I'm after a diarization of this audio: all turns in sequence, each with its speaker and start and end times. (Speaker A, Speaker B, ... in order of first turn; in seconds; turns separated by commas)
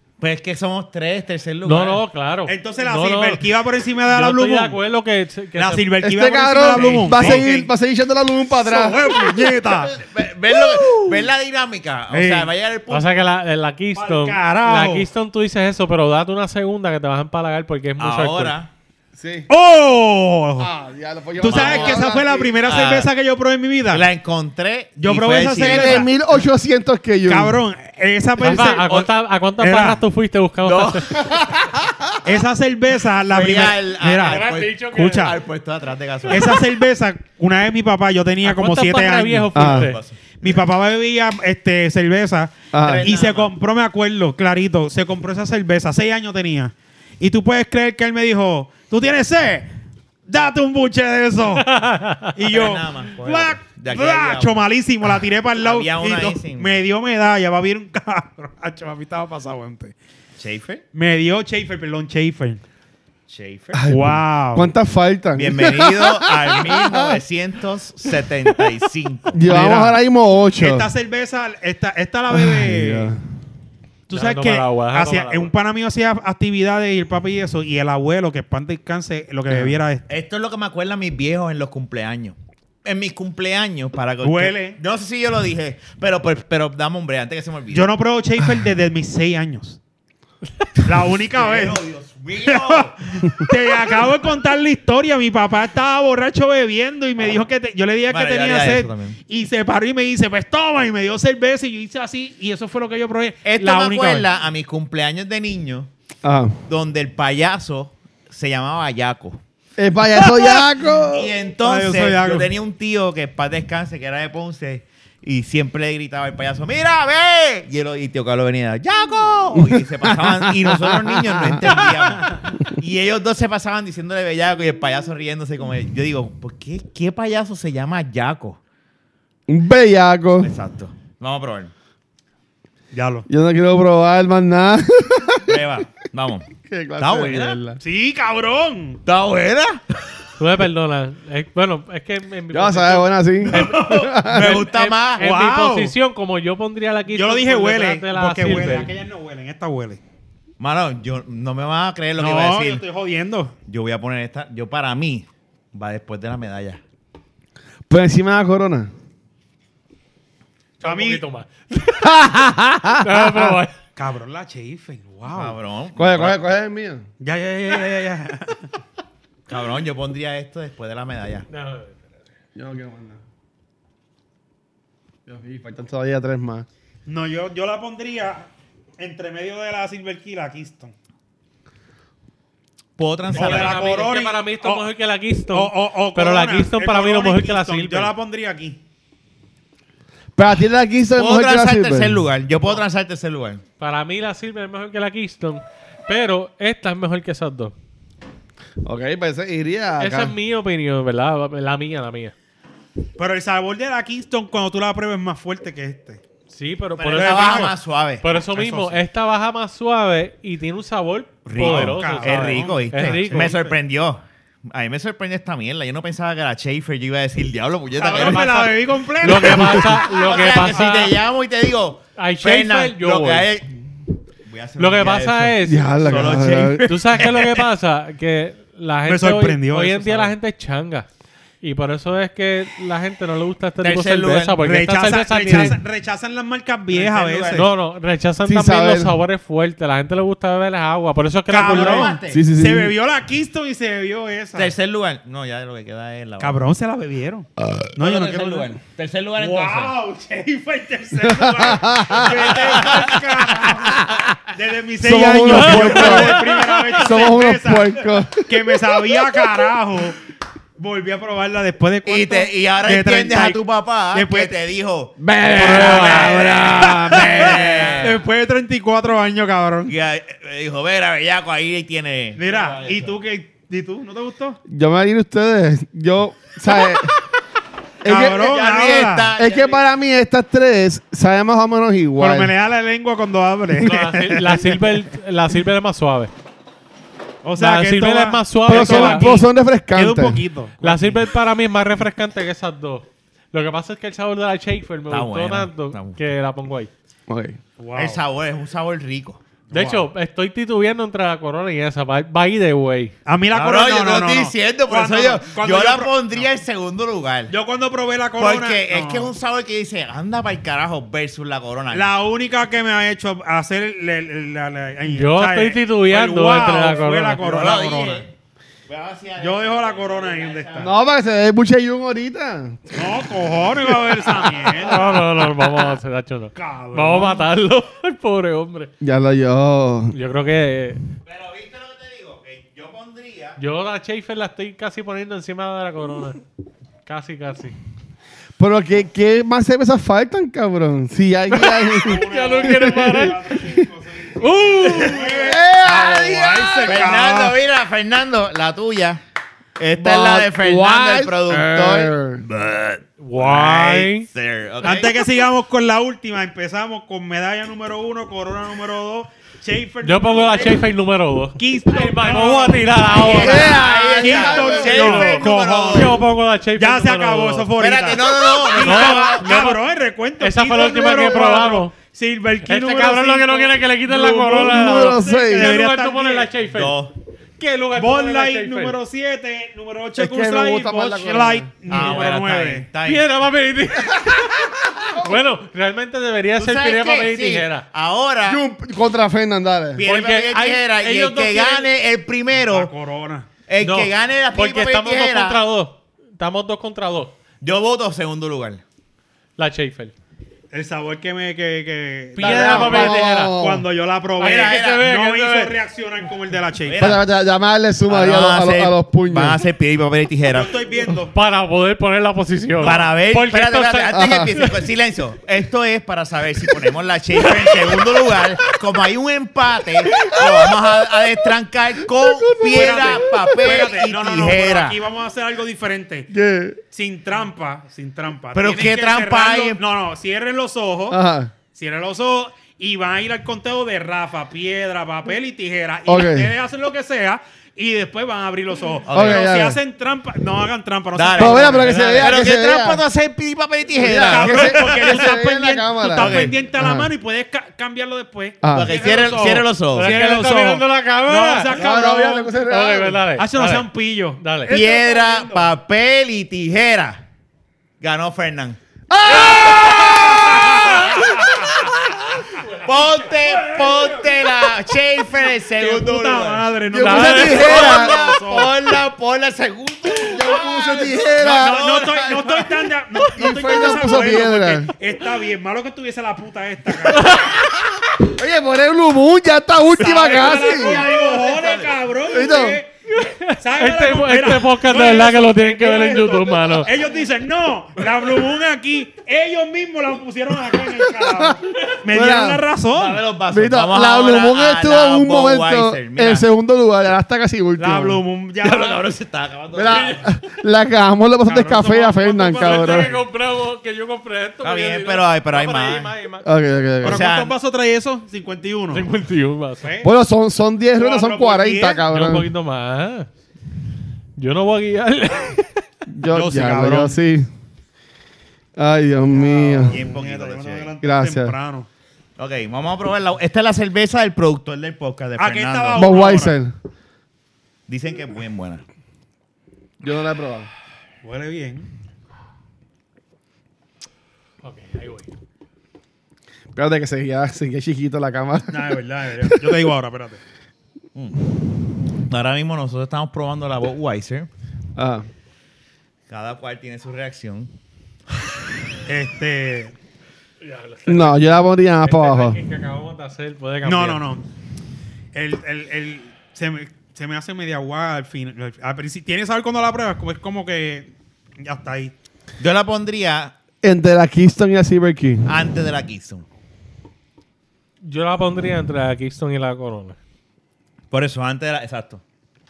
Speaker A: 0.2-2.0, Speaker B: 1.6-3.4, Speaker C: 2.5-4.8, Speaker B: 4.1-5.9, Speaker C: 5.5-7.7, Speaker D: 6.0-9.6, Speaker B: 6.7-7.4, Speaker C: 8.5-10.0, Speaker A: 9.7-13.1, Speaker C: 12.1-12.5, Speaker B: 12.9-18.5, Speaker C: 13.9-15.1, Speaker A: 18.0-18.7, Speaker D: 19.1-19.5, Speaker C: 19.5-20.7, Speaker D: 20.6-22.6, Speaker C: 21.4-24.1, Speaker A: 21.4-22.1, Speaker A: 22.6-23.1, Speaker A: 23.9-26.1, Speaker C: 25.0-26.1, Speaker D: 25.6-27.6, Speaker C: 27.3-28.9, Speaker B: 28.4-31.2, Speaker A: 28.4-29.0, Speaker C: 29.6-30.0, Speaker A: 30.6-32.1, Speaker C: 32.2-35.4, Speaker A: 33.3-36.6, Speaker B: 34.2-35.3, Speaker C: 36.3-39.5, Speaker B: 38.4-40.0, Speaker D: 39.5-39.9, Speaker A: 39.6-40.3, Speaker C: 40.4-49.7, Speaker D: 42.7-43.1, Speaker A: 42.8-43.5, Speaker C: 50.3-51.7, Speaker B: 51.5-52.3, Speaker C: 52.3-59.9, Speaker A: 52.5-54.5, Speaker A: 55.6-56.8, Speaker A: 60.4-60.8, Speaker C: 60.9-62.6, Speaker A: 63.3-63.9, Speaker D: 63.7-67.2, Speaker C: 63.9-64.7, Speaker A: 65.3-69.4, Speaker D: 69.3-70.9, Speaker C: 69.4-70.0, Speaker C: 70.5-73.1, Speaker D: 72.3-73.2, Speaker C: 74.1-80.0, Speaker B: 74.1-75.5, Speaker D: 79.5-79.8, Speaker A: 80.1-87.9, Speaker C: 84.2-84.8, Speaker C: 87.7-89.8, Speaker C: 90.8-91.8, Speaker A: 91.3-93.4, Speaker C: 92.4-104.3, Speaker A: 98.1-99.2, Speaker A: 103.4-105.9, Speaker D: 106.2-106.6, Speaker A: 106.7-109.4, Speaker D: 109.8-111.3, Speaker A: 110.2-110.5, Speaker A: 111.1-128.6, Speaker C: 111.6-112.5, Speaker D: 119.5-121.9, Speaker D: 129.5-130.5, Speaker A: 130.4-131.7, Speaker C: 132.9-133.3, Speaker D: 133.3-135.4, Speaker A: 135.4-137.6, Speaker D: 136.6-137.8, Speaker C: 137.8-139.0, Speaker A: 139.1-139.8, Speaker B: 140.4-143.8, Speaker D: 142.5-144.6, Speaker A: 143.5-145.2, Speaker C: 143.6-144.1, Speaker B: 144.3-148.9, Speaker C: 145.2-145.9, Speaker C: 147.1-150.0, Speaker A: 150.6-152.8, Speaker C: 152.2-153.5, Speaker A: 153.7-156.8, Speaker D: 157.9-158.9, Speaker B: 160.8-162.1, Speaker C: 160.8-161.2, Speaker D: 162.0-163.6, Speaker B: 163.0-163.7, Speaker C: 163.9-165.6, Speaker A: 165.3-166.4, Speaker D: 165.9-167.0, Speaker C: 167.2-168.7, Speaker A: 169.5-171.4, Speaker B: 171.5-172.0, Speaker D: 172.5-173.2, Speaker D: 175.3-176.7, Speaker C: 177.1-180.9, Speaker A: 183.0-183.8, Speaker B: 183.3-188.1, Speaker C: 183.3-184.9, Speaker C: 185.5-188.8, Speaker D: 190.3-192.2, Speaker A: 191.2-193.6, Speaker B: 193.8-197.7, Speaker D: 198.8-200.3, Speaker B: 200.0-202.3, Speaker C: 203.2-206.2, Speaker B: 206.5-213.6, Speaker C: 207.0-207.7, Speaker A: 207.1-208.2, Speaker C: 208.5-209.0, Speaker A: 211.4-218.6, Speaker C: 211.6-213.7, Speaker C: 218.0-221.2, Speaker B: 218.1-221.1, Speaker A: 219.3-223.7, Speaker B: 222.2-223.5, Speaker A: 224.4-227.5, Speaker B: 224.8-231.1, Speaker D: 225.6-226.9, Speaker C: 227.2-227.5, Speaker C: 229.1-230.3, Speaker B: 231.6-235.8, Speaker A: 233.8-234.6, Speaker C: 234.6-237.7, Speaker D: 235.5-235.7, Speaker A: 236.9-237.7, Speaker B: 237.5-242.1, Speaker D: 238.4-239.2, Speaker C: 241.5-244.7, Speaker A: 241.7-242.4, Speaker D: 242.3-242.9, Speaker A: 244.5-246.6, Speaker C: 246.4-248.7, Speaker A: 247.9-249.9, Speaker C: 249.4-260.2, Speaker D: 251.2-252.6, Speaker A: 252.2-253.2, Speaker D: 255.0-256.4, Speaker B: 255.4-257.1, Speaker D: 257.0-259.2, Speaker C: 260.8-263.6, Speaker A: 262.0-268.2, Speaker C: 264.1-264.5, Speaker D: 265.2-268.0, Speaker C: 265.5-269.9, Speaker B: 265.6-266.4, Speaker A: 269.9-273.1, Speaker C: 272.4-274.6, Speaker D: 274.7-277.1, Speaker D: 278.0-278.5, Speaker C: 278.0-279.3, Speaker A: 278.1-279.8, Speaker D: 279.4-282.5, Speaker C: 282.2-285.0, Speaker B: 283.8-286.3, Speaker C: 287.4-291.2, Speaker B: 287.6-289.3, Speaker D: 288.6-290.4, Speaker B: 290.8-296.9, Speaker A: 295.1-296.2, Speaker D: 297.3-297.6, Speaker C: 297.8-298.2, Speaker A: 297.9-299.4, Speaker C: 299.7-300.1, Speaker B: 299.7-303.1, Speaker C: 303.2-306.5, Speaker A: 303.5-307.5, Speaker C: 307.5-309.3, Speaker A: 308.4-312.1, Speaker C: 311.9-318.2, Speaker B: 315.1-317.4, Speaker A: 317.4-318.3, Speaker A: 318.9-320.9, Speaker C: 319.4-320.9, Speaker D: 320.8-323.0, Speaker C: 322.9-325.2, Speaker D: 324.1-324.7, Speaker B: 324.8-328.9, Speaker C: 326.5-327.4, Speaker D: 329.0-330.1, Speaker B: 330.1-331.0, Speaker A: 331.2-333.6, Speaker B: 333.6-336.4, Speaker B: 337.0-337.7, Speaker D: 338.6-343.3, Speaker B: 341.5-343.7, Speaker C: 342.0-347.6, Speaker B: 344.4-345.3, Speaker D: 345.2-346.1, Speaker A: 345.3-349.2, Speaker A: 349.8-355.3, Speaker D: 350.0-352.4, Speaker B: 353.2-354.3, Speaker C: 354.8-360.8, Speaker B: 360.0-363.9, Speaker C: 361.6-366.2, Speaker A: 363.1-366.2, Speaker D: 363.2-365.2, Speaker B: 364.8-367.7, Speaker C: 366.8-376.5, Speaker A: 367.8-369.5, Speaker B: 368.7-369.8, Speaker B: 370.4-371.9, Speaker B: 372.6-376.9, Speaker D: 374.3-375.8, Speaker A: 376.7-377.1, Speaker B: 377.6-379.0, Speaker C: 377.9-382.9, Speaker D: 380.2-381.7, Speaker A: 381.9-383.3, Speaker B: 383.0-387.9, Speaker D: 384.3-385.3, Speaker A: 386.6-388.6, Speaker D: 388.4-390.0, Speaker A: 389.9-392.9, Speaker B: 390.0-391.8, Speaker C: 392.5-393.5, Speaker A: 393.7-395.6, Speaker B: 393.8-397.4, Speaker A: 397.6-398.8, Speaker B: 399.6-400.1, Speaker C: 400.7-407.2, Speaker B: 402.3-403.5, Speaker D: 402.4-403.8, Speaker B: 404.4-405.8, Speaker A: 404.4-405.1, Speaker A: 406.8-407.2, Speaker D: 407.0-409.6, Speaker A: 408.1-410.7, Speaker C: 410.5-411.3, Speaker B: 411.3-414.7, Speaker A: 412.8-425.0, Speaker D: 414.1-414.6, Speaker D: 420.1-420.9, Speaker D: 422.1-423.4, Speaker C: 422.7-426.3, Speaker D: 426.3-426.8, Speaker C: 426.9-431.2, Speaker A: 428.5-429.8, Speaker D: 431.1-431.5, Speaker C: 431.7-442.1, Speaker D: 436.1-436.5, Speaker A: 439.1-439.5, Speaker D: 439.1-439.8, Speaker A: 441.1-445.3, Speaker D: 441.4-443.0, Speaker B: 441.8-442.4, Speaker D: 444.0-447.1, Speaker C: 444.2-452.5, Speaker A: 446.1-446.5, Speaker D: 448.6-449.0, Speaker A: 448.7-450.1, Speaker B: 449.9-451.8, Speaker D: 451.7-453.2, Speaker B: 452.6-453.9, Speaker C: 453.4-455.7, Speaker B: 454.4-454.7, Speaker A: 454.7-457.2, Speaker A: 458.0-458.8, Speaker D: 459.1-461.1, Speaker A: 459.3-466.7, Speaker C: 460.4-461.3, Speaker C: 462.9-464.4, Speaker C: 465.8-468.7, Speaker D: 466.9-468.2, Speaker B: 467.0-467.8, Speaker A: 467.3-472.7, Speaker D: 470.2-471.9, Speaker C: 471.4-477.5, Speaker D: 473.3-474.9, Speaker B: 477.2-477.6, Speaker D: 478.1-481.1, Speaker C: 479.9-482.9, Speaker A: 480.9-481.7, Speaker D: 482.3-482.8, Speaker B: 483.1-486.9, Speaker C: 483.6-493.2, Speaker D: 490.9-491.5, Speaker D: 492.1-492.6, Speaker A: 492.9-496.5, Speaker D: 493.5-498.2, Speaker C: 497.8-499.0, Speaker A: 498.6-500.2, Speaker D: 499.7-503.1, Speaker B: 499.9-500.2, Speaker C: 501.4-503.2, Speaker B: 502.6-506.5, Speaker A: 504.6-506.1, Speaker D: 506.4-507.2, Speaker A: 507.0-507.5, Speaker C: 507.0-509.1, Speaker B: 508.9-509.9, Speaker C: 509.8-510.1, Speaker D: 510.0-512.5, Speaker C: 510.9-512.0, Speaker B: 512.1-513.3, Speaker B: 514.4-515.8, Speaker D: 516.1-517.5, Speaker C: 516.3-517.2, Speaker D: 518.8-520.0, Speaker C: 519.3-521.9, Speaker A: 519.9-520.9, Speaker D: 521.0-521.5, Speaker A: 522.4-526.2, Speaker C: 525.4-526.6, Speaker D: 525.9-526.7, Speaker A: 527.9-528.8, Speaker D: 530.0-530.7, Speaker C: 531.2-531.9, Speaker B: 534.6-535.3, Speaker D: 536.7-539.6, Speaker C: 538.7-540.4, Speaker A: 541.1-541.4, Speaker A: 542.2-544.5, Speaker D: 545.0-545.3, Speaker A: 546.3-547.7, Speaker C: 549.1-549.9, Speaker B: 550.6-551.5, Speaker D: 551.1-552.6, Speaker B: 552.0-554.2, Speaker C: 553.8-554.4, Speaker C: 555.3-562.1, Speaker A: 562.6-563.5, Speaker D: 563.8-565.5, Speaker A: 565.5-566.4, Speaker B: 568.0-570.2, Speaker A: 571.1-572.2